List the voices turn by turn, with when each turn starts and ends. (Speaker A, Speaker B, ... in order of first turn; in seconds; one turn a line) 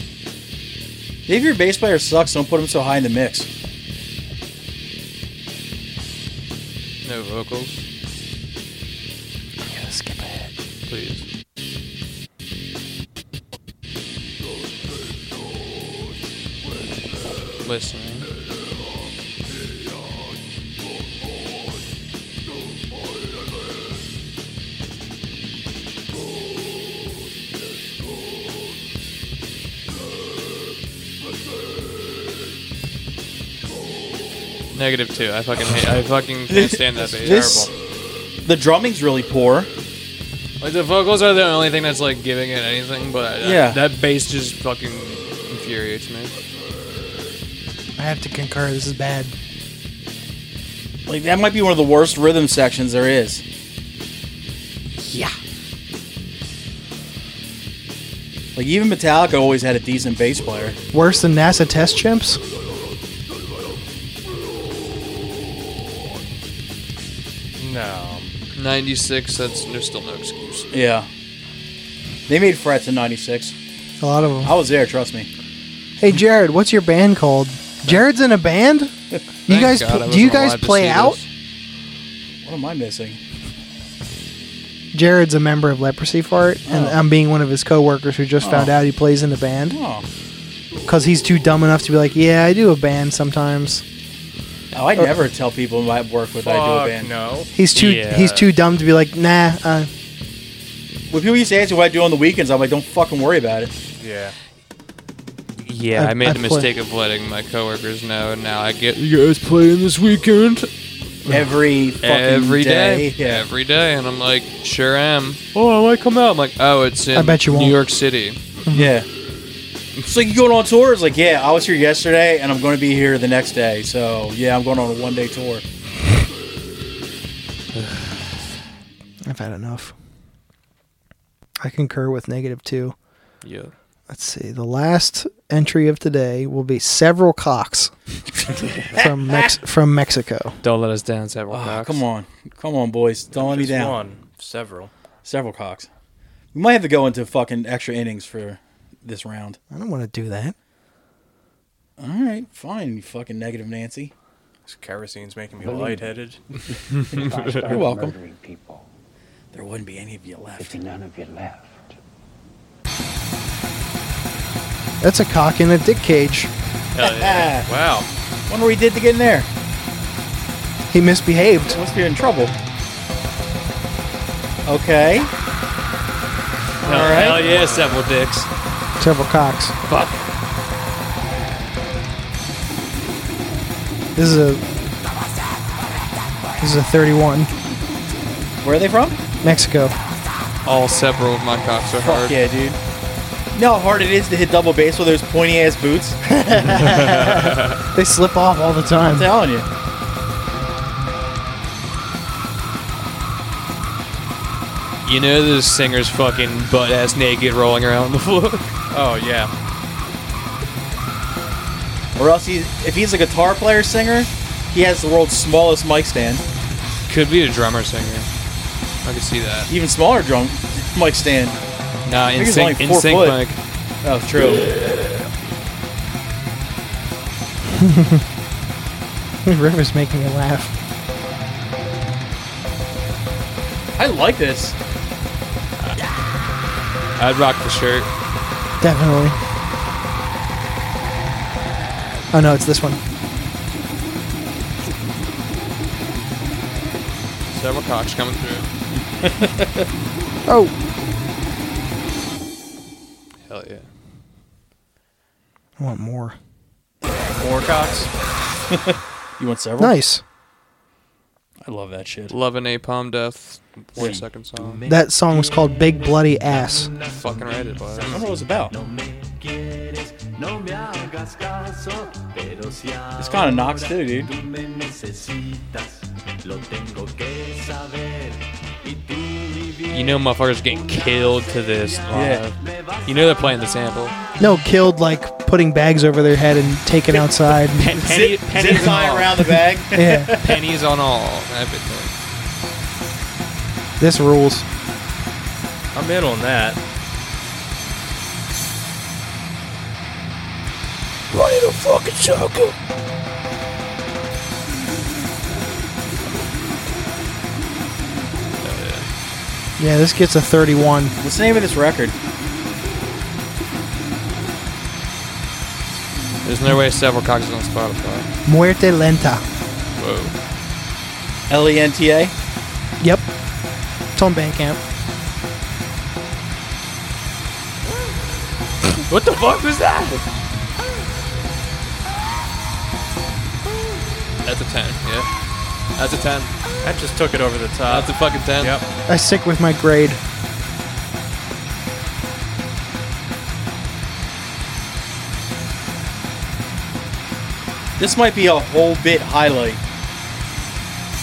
Speaker A: 1.3-3.5
Speaker B: 7.0-7.8
Speaker C: 9.6-10.5
Speaker B: 10.9-11.2
Speaker B: 17.6-18.3
Speaker B: 34.7-37.7
Speaker A: 36.5-37.7
Speaker D: 37.2-37.6
Speaker A: 38.5-39.7
Speaker B: 40.6-46.4
Speaker A: 43.4-43.8
Speaker C: 48.0-49.4
Speaker A: 51.1-53.4
Speaker A: 58.5-60.8
Speaker C: 60.9-62.4
Speaker D: 67.6-68.4
Speaker B: 68.6-70.7
Speaker A: 70.7-71.1
Speaker A: 72.3-73.5
Speaker C: 74.0-74.5
Speaker A: 74.4-75.3
Speaker C: 76.0-78.9
Speaker C: 79.5-81.2
Speaker B: 79.5-81.3
Speaker A: 82.5-83.2
Speaker C: 84.9-89.8
Speaker A: 86.7-87.0
Speaker A: 88.4-88.7
Speaker A: 89.7-90.1
Speaker C: 90.9-93.8
Speaker A: 94.7-97.1
Speaker D: 96.4-97.5
Speaker C: 97.5-99.9
Speaker B: 97.7-98.5
Speaker A: 101.1-103.7
Speaker D: 104.0-104.3
Speaker B: 105.6-110.7
Speaker C: 106.0-106.7
Speaker A: 111.3-113.4
Speaker B: 112.0-118.4
Speaker C: 117.1-117.8
Speaker A: 118.7-119.1
Speaker A: 120.1-125.6
Speaker B: 127.7-128.2
Speaker C: 129.2-129.9
Speaker C: 131.6-132.9
Speaker B: 133.4-133.7
Speaker C: 134.1-137.9
Speaker A: 138.9-139.5
Speaker C: 138.9-140.6
Speaker B: 140.6-142.0
Speaker A: 141.5-144.0
Speaker D: 143.3-144.9
Speaker A: 145.2-145.9
Speaker A: 146.5-149.6
Speaker C: 149.7-150.6
Speaker A: 152.0-154.1
Speaker D: 154.7-156.4
Speaker E: 155.6-158.9
Speaker B: 156.9-157.7
Speaker A: 157.6-158.2
Speaker A: 159.5-160.8
Speaker E: 160.6-162.0
Speaker C: 165.0-166.5
Speaker B: 166.9-167.6
Speaker A: 167.0-167.7
Speaker D: 167.7-168.1
Speaker A: 168.5-169.5
Speaker C: 170.9-171.8
Speaker A: 171.7-172.5
Speaker A: 174.7-175.3
Speaker A: 176.8-177.5
Speaker B: 176.8-178.5
Speaker C: 179.0-179.8
Speaker B: 179.9-180.2
Speaker C: 184.2-184.6
Speaker C: 186.6-187.5
Speaker A: 188.6-189.2
Speaker C: 189.4-190.0
Speaker B: 190.7-192.4
Speaker A: 191.9-192.8
Speaker A: 193.5-196.2
Speaker C: 196.3-199.3
Speaker B: 196.8-197.8
Speaker A: 199.1-199.7
Speaker B: 205.1-208.7
Speaker D: 208.9-209.5
Speaker A: 212.2-216.4
Speaker B: 217.1-218.3
Speaker B: 219.0-219.7
Speaker A: 219.7-221.6
Speaker B: 222.1-223.6
Speaker A: 222.4-223.4
Speaker A: 224.0-224.7
Speaker C: 227.8-228.2
Speaker C: 229.4-230.8
Speaker A: 234.0-234.8
Speaker B: 237.2-238.1
Speaker C: 238.8-239.4
Speaker C: 242.3-243.0
Speaker B: 247.5-248.7
Speaker A: 249.2-249.7
Speaker C: 250.5-250.7
Speaker B: 253.5-253.9
Speaker C: 255.8-256.4
Speaker D: 257.4-258.1
Speaker A: 258.7-260.0
Speaker C: 259.8-260.2
Speaker A: 261.6-262.3
Speaker B: 262.3-264.8
Speaker A: 264.0-264.2
Speaker C: 264.9-266.9
Speaker B: 267.1-268.3
Speaker A: 268.1-268.7
Speaker E: 268.7-273.1
Speaker A: 273.2-274.3
Speaker E: 274.7-275.3
Speaker E: 276.6-278.1
Speaker B: 279.9-284.2
Speaker A: 282.1-282.4
Speaker C: 284.4-287.9
Speaker B: 287.8-289.5
Speaker A: 287.9-290.6
Speaker C: 289.9-290.4
Speaker B: 290.3-292.1
Speaker C: 294.0-294.6
Speaker D: 295.9-296.8
Speaker B: 301.4-302.5
Speaker B: 308.6-309.1
Speaker C: 309.8-311.2
Speaker A: 311.2-312.1
Speaker B: 316.4-318.3
Speaker C: 318.5-319.4
Speaker B: 320.0-320.4
Speaker A: 321.5-322.3
Speaker C: 323.0-323.3
Speaker C: 324.1-324.8
Speaker B: 329.1-330.2
Speaker B: 334.4-335.3
Speaker B: 336.0-336.5
Speaker D: 336.8-338.9
Speaker B: 337.9-338.8
Speaker C: 339.1-340.2
Speaker A: 348.0-349.8